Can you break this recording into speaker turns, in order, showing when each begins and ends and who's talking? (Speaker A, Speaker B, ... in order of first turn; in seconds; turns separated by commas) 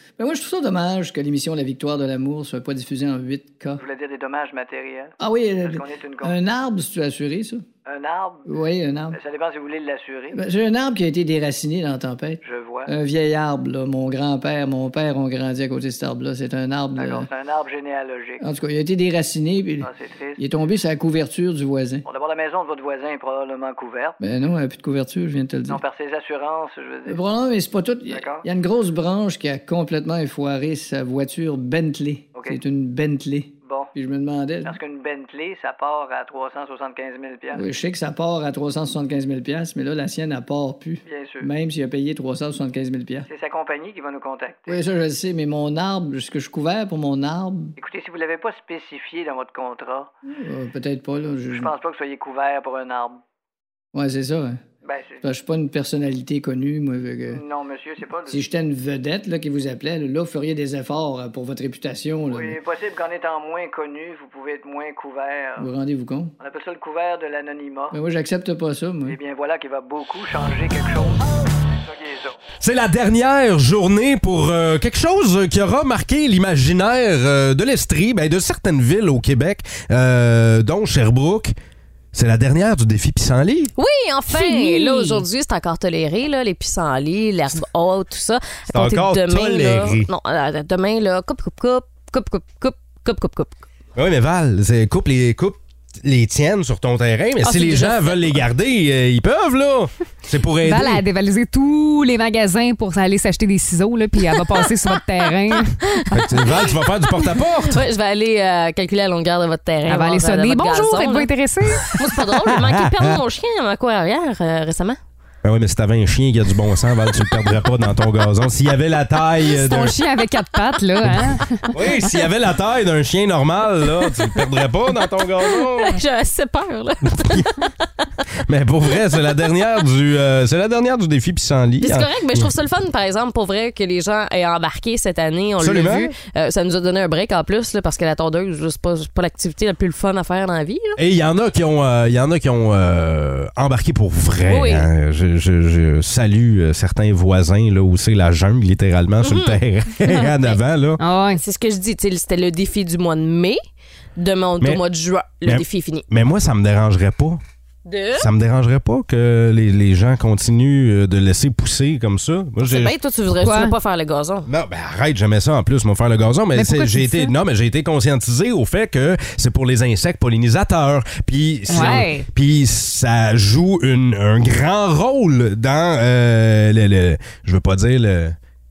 Speaker A: 0.2-3.8, Speaker B: 3.8-6.4, Speaker A: 5.2-7.7, Speaker B: 7.9-8.5, Speaker A: 8.5-9.2, Speaker B: 9.1-10.4, Speaker A: 10.3-17.3, Speaker B: 12.4-12.9, Speaker B: 17.0-18.4, Speaker A: 18.4-22.1, Speaker B: 19.8-20.4, Speaker B: 22.1-24.2, Speaker A: 24.2-25.8, Speaker B: 25.7-27.2, Speaker A: 27.1-34.8, Speaker B: 28.1-28.5, Speaker B: 32.3-32.6, Speaker B: 33.6-33.9, Speaker B: 34.6-37.7, Speaker A: 37.5-43.3, Speaker B: 41.0-41.5, Speaker B: 43.3-44.8, Speaker A: 44.7-47.7, Speaker B: 47.8-50.1, Speaker A: 50.3-51.7, Speaker B: 51.5-53.2, Speaker A: 53.9-54.6, Speaker B: 54.8-55.3, Speaker A: 55.2-57.4, Speaker B: 57.3-58.5, Speaker A: 58.3-62.6, Speaker B: 62.3-65.7, Speaker A: 65.6-66.3, Speaker B: 66.4-68.0, Speaker A: 67.9-69.2, Speaker B: 69.1-72.4, Speaker C: 72.6-81.5, Speaker C: 82.1-83.7, Speaker D: 83.8-93.6, Speaker E: 84.3-85.2, Speaker C: 88.7-90.1, Speaker C: 94.0-101.0, Speaker D: 97.4-98.4, Speaker E: 100.6-106.3, Speaker C: 106.1-107.8, Speaker D: 107.7-111.3, Speaker E: 109.9-112.0, Speaker D: 111.9-115.0, Speaker C: 112.5-113.2, Speaker C: 115.4-120.0, Speaker E: 119.5-121.7, Speaker C: 121.0-126.0, Speaker D: 125.4-127.7, Speaker C: 127.1-127.5, Speaker C: 128.4-132.5, Speaker D: 131.8-141.0, Speaker C: 135.6-136.1, Speaker C: 141.0-151.0, Speaker D: 144.5-144.9, Speaker D: 149.2-150.5, Speaker E: 151.0-151.4, Speaker D: 151.4-153.6, Speaker D: 154.2-156.1, Speaker C: 155.4-157.4, Speaker D: 157.9-158.3, Speaker C: 158.2-163.0, Speaker D: 162.6-164.5, Speaker E: 163.3-163.7, Speaker C: 164.5-178.4, Speaker E: 166.6-167.3, Speaker E: 171.7-172.3